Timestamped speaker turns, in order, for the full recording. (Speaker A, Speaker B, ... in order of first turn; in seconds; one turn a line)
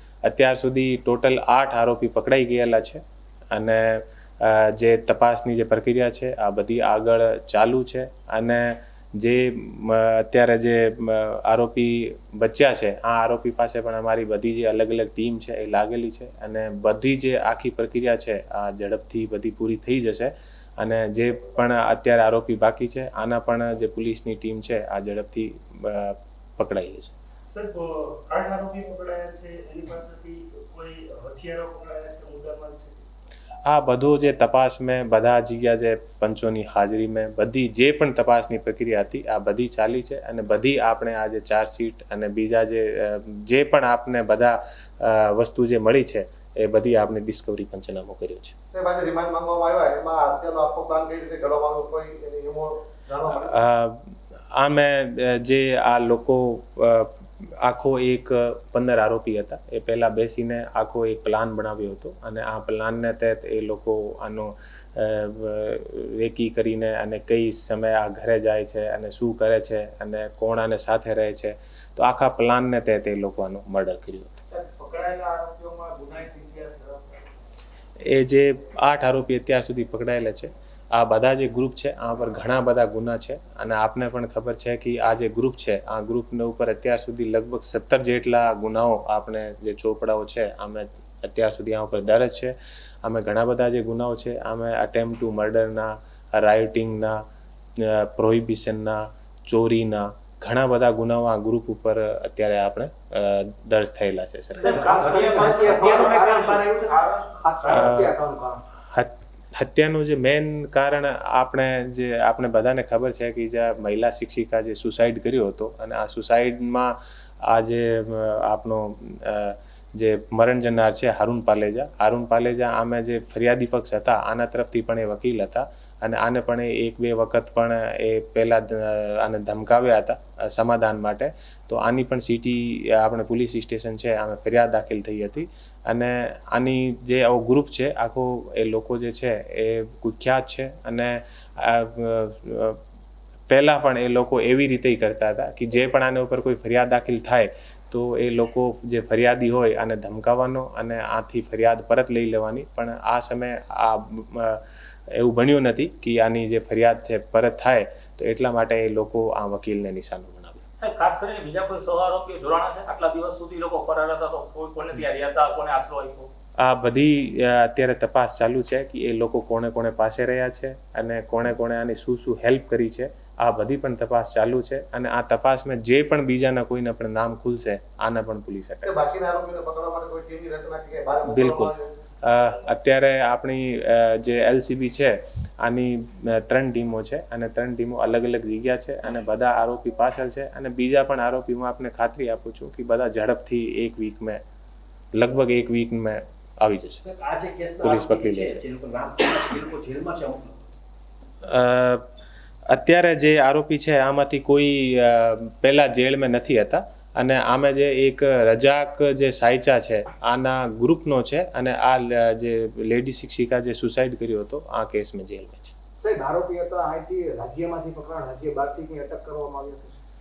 Speaker A: 0.2-27.1
Speaker B: 27.5-33.0
Speaker A: 33.6-48.5
Speaker C: 48.7-53.5
Speaker A: 53.4-74.4
Speaker D: 74.5-77.1
Speaker A: 78.0-97.2
Speaker A: 97.8-105.0
Speaker E: 104.6-106.8
Speaker D: 104.6-108.6
Speaker A: 107.6-108.2
Speaker A: 108.8-142.8
Speaker A: 143.5-160.6
Speaker E: 160.8-166.3
Speaker A: 166.6-179.0
Speaker C: 178.8-181.9
Speaker A: 181.3-194.4
Speaker A: 195.1-197.0
Speaker D: 197.0-200.6
Speaker A: 197.8-198.6
Speaker A: 201.4-202.1
Speaker A: 202.7-215.7
Speaker D: 216.0-219.9